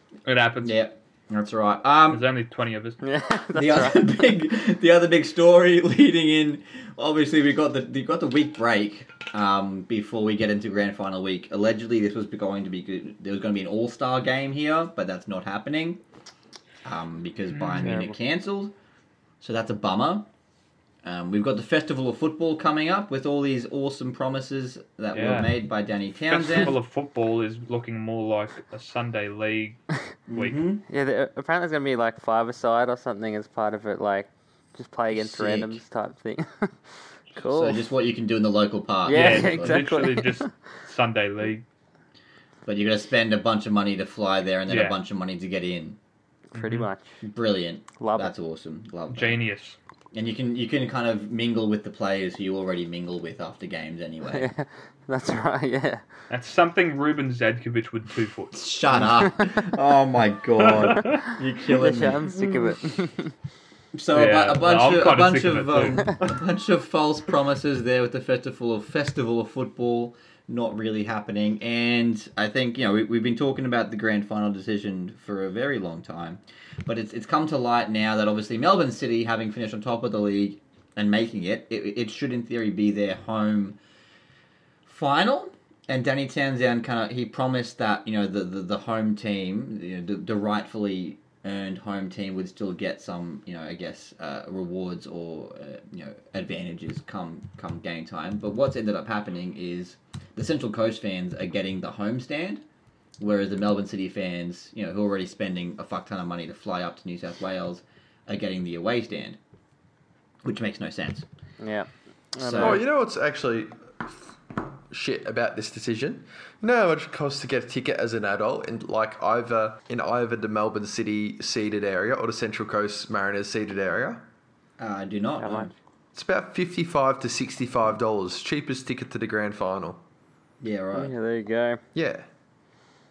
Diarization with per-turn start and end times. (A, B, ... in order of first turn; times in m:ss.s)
0:00.2-0:00.8 A
0:00.6-0:02.2 B
0:02.1-0:03.0 A
0:03.0-0:04.2 C
0:03.6-0:16.0 B
0:16.8-0:18.7 B
0:17.5-0:18.0 A
0:17.8-0:18.2 C
0:19.4-0:20.3 B
0:21.0-0:26.8 B
0:25.1-0:29.8 A
0:30.3-0:30.8 B
0:30.4-0:30.6 A
0:30.9-0:36.7 C
0:35.1-0:35.8 B
0:37.4-0:37.9 C
0:37.4-0:39.9 B
0:39.0-0:40.5 C
0:39.1-0:41.6 A
0:42.7-0:46.0 B
0:44.7-0:45.0 A
0:46.5-0:46.9 A
0:46.5-0:47.1 C
0:47.2-0:49.4 B
0:48.0-0:48.3 C
0:49.1-0:49.8 A
0:50.1-0:54.5 B
0:54.3-0:56.0 C
0:56.3-0:59.1 A
0:58.5-1:02.2 B
1:00.7-1:01.2 A
1:01.8-1:03.3 C
1:02.4-1:02.7 A
1:03.9-1:23.8 B
1:04.1-1:06.4 A
1:24.9-1:42.6 B
1:43.2-1:49.4 B
1:50.4-1:51.2 B
1:51.6-1:52.8 C
1:52.4-1:52.8 B
1:52.6-1:54.3 D
1:54.9-2:04.3 D
2:04.8-2:05.7 B
2:05.4-2:05.7 C
2:06.1-2:10.0 D
2:10.6-2:11.1 B
2:11.0-2:11.8 C
2:12.0-2:12.3 D